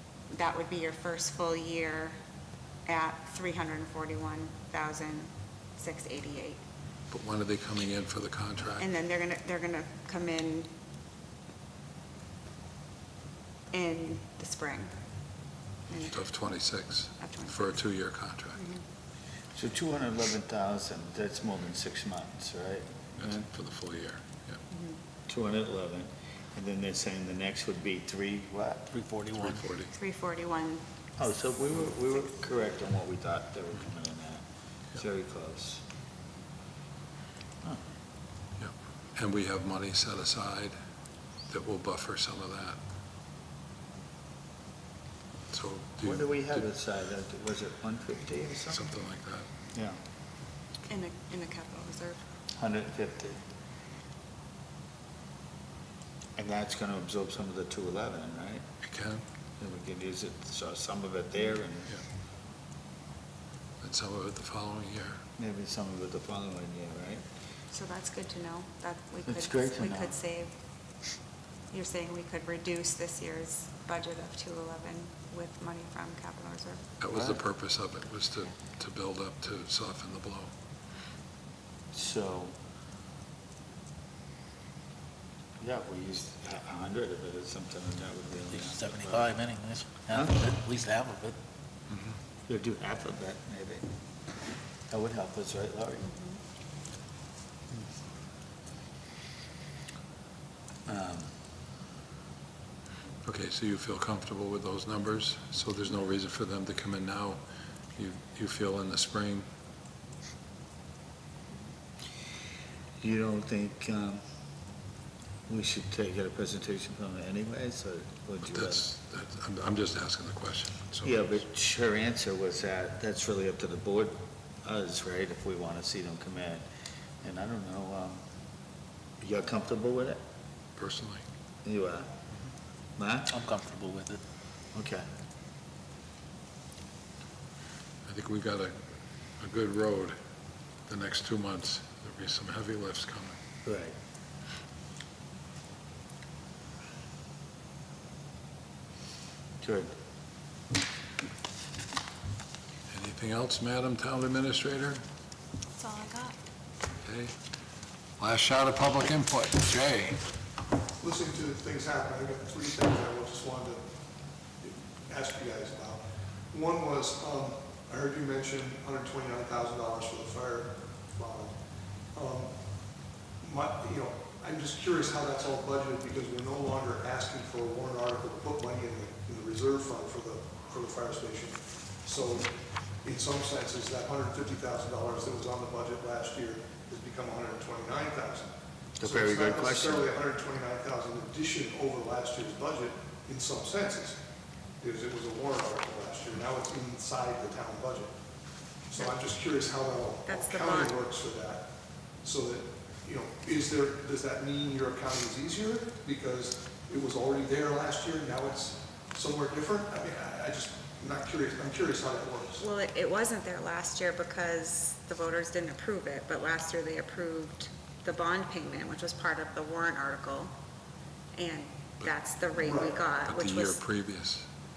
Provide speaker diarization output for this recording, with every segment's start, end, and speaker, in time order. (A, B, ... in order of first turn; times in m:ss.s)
0:00.3-0:02.1 A
0:02.9-0:06.6 A
0:07.1-0:08.8 B
0:08.8-0:10.7 A
0:13.7-0:14.9 A
0:16.1-0:18.6 B
0:17.2-0:17.7 A
0:19.5-0:23.4 C
0:23.2-0:24.6 B
0:25.3-0:28.9 C
0:28.9-0:29.8 D
0:29.4-0:29.9 B
0:29.9-0:30.8 A
0:31.2-0:34.4 C
0:35.0-0:35.8 C
0:38.6-0:40.7 B
0:41.5-0:42.8 B
0:45.5-0:46.6 B
0:46.0-0:48.8 C
0:48.7-0:49.4 B
0:50.9-0:52.2 A
0:52.6-0:53.4 C
0:56.4-0:58.6 C
0:58.8-0:59.2 B
0:59.6-1:01.9 C
1:03.8-1:05.2 B
1:05.4-1:07.2 C
1:07.7-1:10.5 A
1:09.3-1:10.2 C
1:11.7-1:16.8 A
1:17.0-1:20.5 B
1:17.1-1:17.4 C
1:21.9-1:22.5 C
1:25.6-1:29.3 C
1:28.5-1:31.4 D
1:30.0-1:30.4 C
1:32.5-1:33.8 C
1:34.9-1:36.1 C
1:40.8-1:41.3 C
1:43.2-1:47.4 B
1:48.0-1:49.4 B
1:53.0-1:54.2 C
1:55.5-1:58.8 C
1:58.4-2:01.3 B
2:01.0-2:06.6 C
2:07.2-2:08.2 C
2:09.2-2:10.2 C
2:10.8-2:11.2 B
2:11.6-2:12.1 C
2:13.0-2:13.4 C
2:13.3-2:14.2 D
2:14.7-2:15.0 C
2:18.0-2:18.8 B
2:19.4-2:20.1 B
2:20.9-2:23.4 B
2:23.6-2:23.9 C
2:29.6-2:29.9 C
2:32.9-2:35.0 B
2:35.8-2:36.3 A
2:37.0-2:37.3 B
2:38.2-2:40.2 B
2:41.0-2:43.8 E
2:44.6-2:46.0 E
2:46.5-2:51.5 E
2:52.1-2:52.5 E
2:53.4-3:02.5 E
3:03.0-3:14.2 E
3:09.0-3:10.1 C
3:14.8-3:18.1 E
3:18.9-3:21.6 E
3:20.2-3:21.0 A
3:22.2-3:32.6 E
3:32.6-3:40.5 A
3:41.3-3:43.8 A
3:42.5-3:43.0 E
3:43.2-3:44.4 B